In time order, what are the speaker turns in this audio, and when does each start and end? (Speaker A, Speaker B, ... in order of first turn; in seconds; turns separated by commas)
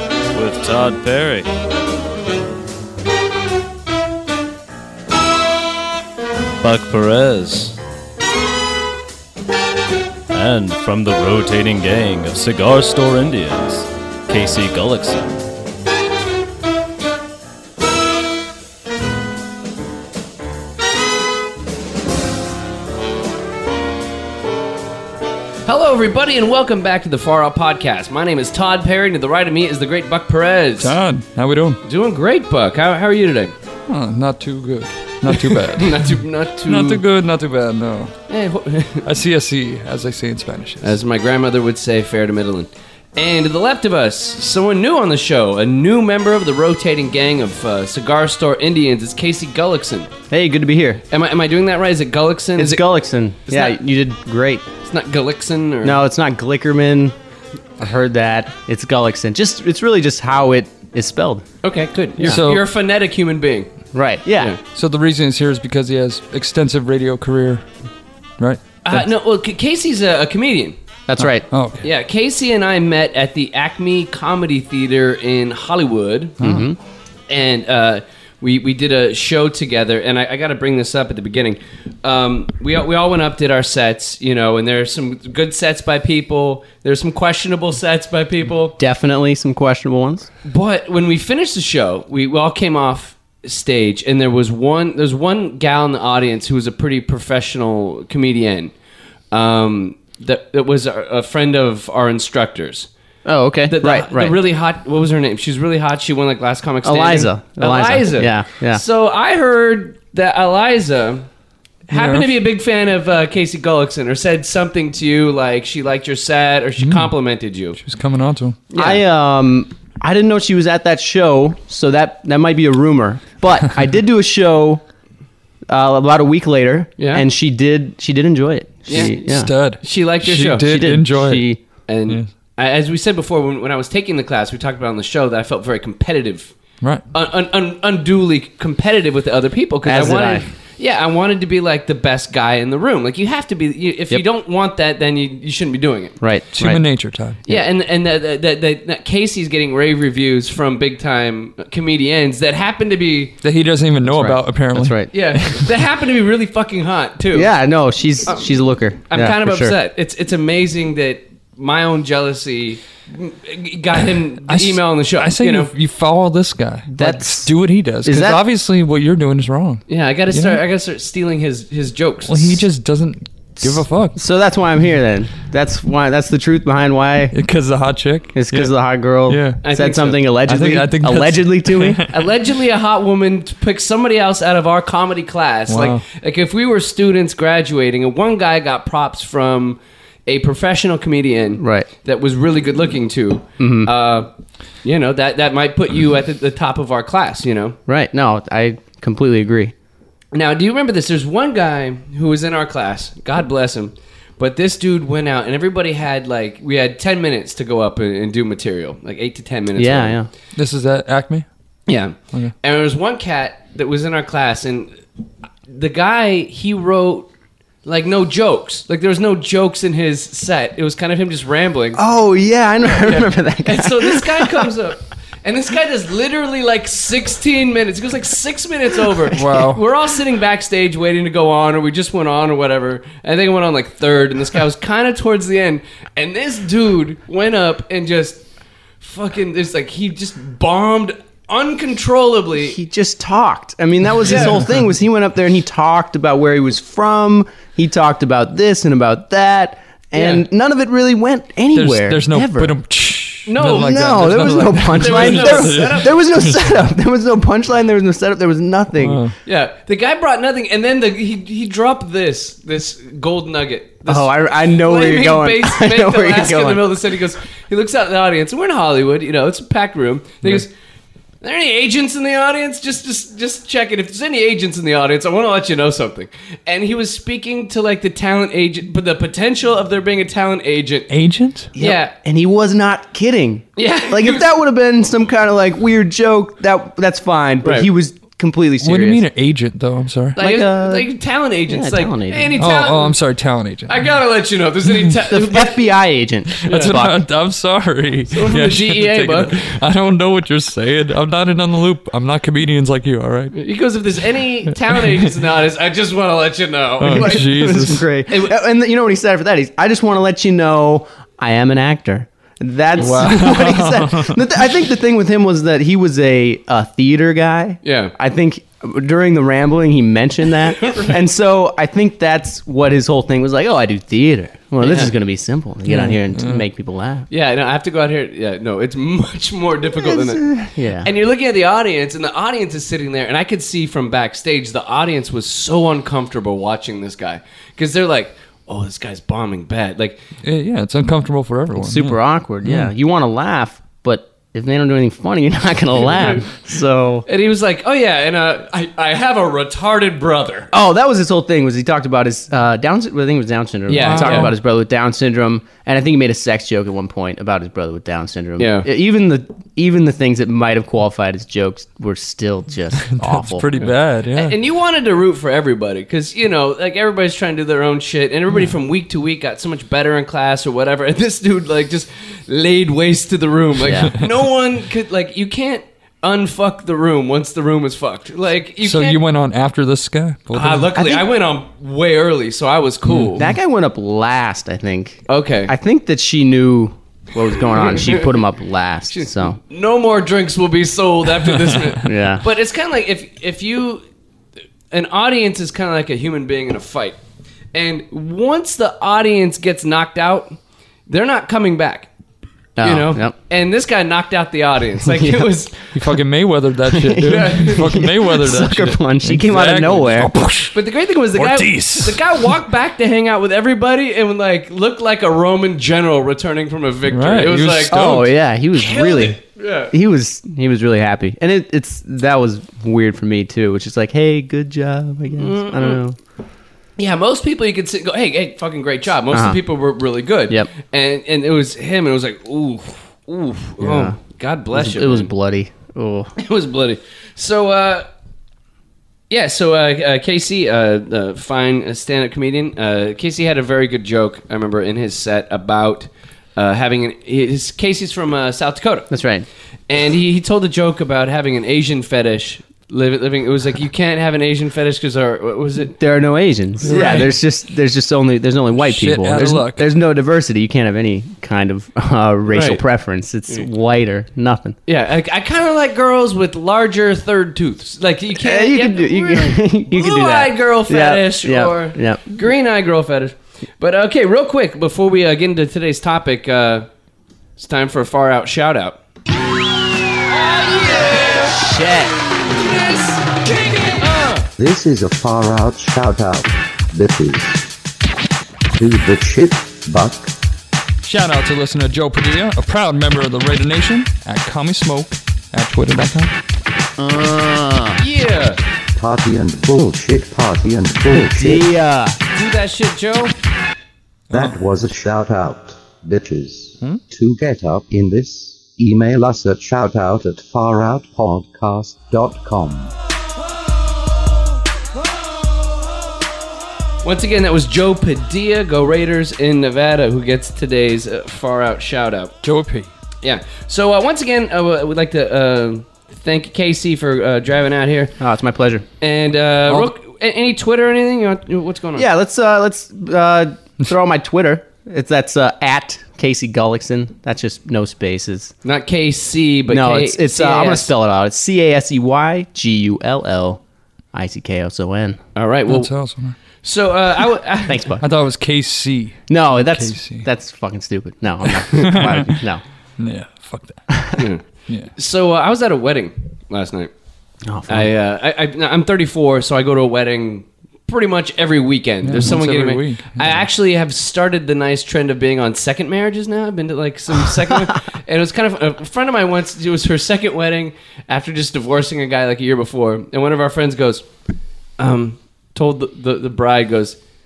Speaker A: 0.3-1.5, Speaker A: 6.6-7.7, Speaker A: 10.3-15.4, Speaker B: 25.7-30.9, Speaker C: 30.8-31.8, Speaker B: 31.8-33.5, Speaker C: 33.9-36.1, Speaker B: 35.3-37.0, Speaker C: 36.6-38.1, Speaker B: 38.3-39.0, Speaker C: 39.0-41.0, Speaker B: 40.8-50.1, Speaker D: 50.3-51.0, Speaker B: 51.1-52.8, Speaker D: 52.5-54.6, Speaker B: 53.5-53.8, Speaker B: 54.8-56.0, Speaker D: 55.8-57.1, Speaker D: 57.8-61.4, Speaker B: 61.6-63.7, Speaker C: 62.2-62.7, Speaker D: 63.9-64.5, Speaker C: 64.7-67.6, Speaker C: 68.4-69.0, Speaker B: 68.8-70.8, Speaker D: 71.1-71.5, Speaker C: 71.2-71.8, Speaker B: 71.8-76.4, Speaker C: 76.4-76.7, Speaker D: 76.4-76.8, Speaker B: 77.3-88.8, Speaker D: 88.8-90.3, Speaker B: 90.5-98.7, Speaker B: 99.3-102.9, Speaker D: 103.2-104.4, Speaker B: 103.7-111.3, Speaker D: 106.8-108.8, Speaker B: 111.9-117.8, Speaker C: 111.9-112.3, Speaker C: 116.8-117.1, Speaker C: 117.8-118.6, Speaker B: 118.7-119.0, Speaker D: 118.8-124.8, Speaker D: 125.7-129.5, Speaker B: 127.0-127.2, Speaker B: 128.9-129.1, Speaker C: 128.9-131.5, Speaker B: 129.8-130.7, Speaker D: 130.6-131.6, Speaker B: 131.9-136.5, Speaker B: 137.1-146.1, Speaker D: 139.8-140.4, Speaker D: 146.2-146.8, Speaker C: 146.5-147.5, Speaker B: 147.5-153.3, Speaker C: 153.4-155.8, Speaker D: 154.0-155.1, Speaker B: 155.1-157.5, Speaker D: 157.3-159.7, Speaker B: 159.1-165.7, Speaker C: 164.5-170.6, Speaker D: 166.9-167.5, Speaker D: 168.0-168.4, Speaker B: 169.9-172.6, Speaker C: 172.3-174.2, Speaker D: 173.6-177.3, Speaker C: 177.3-178.7, Speaker D: 178.3-182.0, Speaker C: 179.3-179.6, Speaker B: 179.6-180.2, Speaker C: 180.4-182.1, Speaker B: 182.1-194.3, Speaker C: 185.7-186.0, Speaker D: 191.6-191.9, Speaker D: 193.6-193.9, Speaker B: 194.8-197.8, Speaker D: 197.9-199.7, Speaker B: 200.3-210.2, Speaker D: 209.8-210.3, Speaker C: 210.6-211.4, Speaker B: 211.9-214.9, Speaker B: 215.7-217.3, Speaker B: 217.8-222.0, Speaker D: 221.9-224.7, Speaker B: 222.8-238.4, Speaker C: 229.3-229.8, Speaker B: 239.0-242.8, Speaker D: 242.6-252.7, Speaker B: 244.2-244.6, Speaker B: 250.1-250.4, Speaker C: 251.7-256.8, Speaker B: 253.5-256.1, Speaker D: 253.6-259.2, Speaker C: 259.0-259.3, Speaker B: 259.4-270.7, Speaker D: 264.1-266.9, Speaker B: 271.4-281.1, Speaker C: 281.1-281.7, Speaker B: 281.8-282.1, Speaker D: 281.8-289.2, Speaker B: 283.8-284.5, Speaker B: 287.6-287.9, Speaker C: 288.8-290.4, Speaker B: 290.4-293.2, Speaker D: 290.4-291.1, Speaker D: 291.7-292.5, Speaker C: 292.6-294.0, Speaker B: 293.9-295.9, Speaker D: 295.3-297.2, Speaker C: 296.6-303.6, Speaker B: 296.6-297.0, Speaker B: 298.3-299.6, Speaker B: 303.5-307.7, Speaker C: 307.0-308.1, Speaker D: 307.0-327.2, Speaker B: 308.3-308.5, Speaker B: 313.0-313.5, Speaker C: 313.1-314.4, Speaker B: 317.8-318.1, Speaker B: 320.8-321.2, Speaker B: 324.8-325.1, Speaker C: 325.9-326.6, Speaker B: 327.3-330.4, Speaker D: 329.9-331.1, Speaker B: 331.0-340.2, Speaker C: 340.4-342.9, Speaker D: 341.7-347.2, Speaker B: 346.0-346.5, Speaker B: 347.2-350.7, Speaker D: 350.7-363.7, Speaker B: 353.9-354.5, Speaker C: 353.9-354.5, Speaker B: 358.6-358.9, Speaker C: 363.1-364.6, Speaker B: 363.8-379.2, Speaker D: 373.8-374.1, Speaker C: 378.8-380.9, Speaker B: 380.5-383.4, Speaker D: 380.9-381.2, Speaker C: 383.1-383.3, Speaker D: 383.4-389.6, Speaker B: 385.3-385.7, Speaker B: 387.7-388.3, Speaker B: 389.1-394.0, Speaker D: 392.0-392.4, Speaker B: 394.9-397.2, Speaker B: 397.7-400.6, Speaker B: 401.1-402.1, Speaker D: 402.8-403.3, Speaker B: 402.8-405.7, Speaker D: 405.0-405.6, Speaker C: 405.9-410.8, Speaker D: 406.9-410.3, Speaker B: 407.2-407.9, Speaker B: 410.7-418.1, Speaker C: 411.3-412.4, Speaker C: 417.1-418.3, Speaker D: 417.9-426.2, Speaker B: 418.7-419.9, Speaker B: 425.4-426.0, Speaker B: 427.0-435.3, Speaker D: 429.3-429.6, Speaker D: 433.8-434.2, Speaker D: 434.7-436.3, Speaker B: 436.4-438.1, Speaker B: 439.3-449.1, Speaker D: 449.1-449.4, Speaker B: 449.9-455.9, Speaker D: 456.0-464.8, Speaker C: 456.8-457.3, Speaker B: 456.9-457.2, Speaker C: 458.8-459.9, Speaker B: 462.5-462.8, Speaker B: 464.9-476.9, Speaker D: 468.4-472.2, Speaker B: 477.6-479.0, Speaker B: 480.3-481.9, Speaker D: 481.4-482.1, Speaker B: 482.4-484.5, Speaker E: 484.6-487.7, Speaker E: 488.7-490.3, Speaker C: 491.0-496.3, Speaker D: 497.0-498.0, Speaker B: 498.0-498.6, Speaker E: 498.9-501.7, Speaker D: 501.2-502.2, Speaker B: 502.3-503.3, Speaker C: 504.3-504.5, Speaker E: 504.3-512.9, Speaker B: 517.0-522.4, Speaker C: 522.4-522.9, Speaker B: 523.2-528.1, Speaker D: 528.2-528.8, Speaker B: 529.0-532.1, Speaker D: 532.0-538.5, Speaker B: 538.6-540.9, Speaker D: 539.7-543.6, Speaker D: 544.1-545.2, Speaker B: 545.3-545.9, Speaker C: 545.7-546.4, Speaker B: 546.6-547.9, Speaker D: 547.7-548.0, Speaker C: 548.0-550.3, Speaker D: 549.3-552.6, Speaker C: 551.7-552.4, Speaker C: 553.0-554.0, Speaker B: 554.1-556.9, Speaker D: 557.5-557.9, Speaker B: 557.7-574.0, Speaker C: 562.0-563.4, Speaker B: 574.8-577.0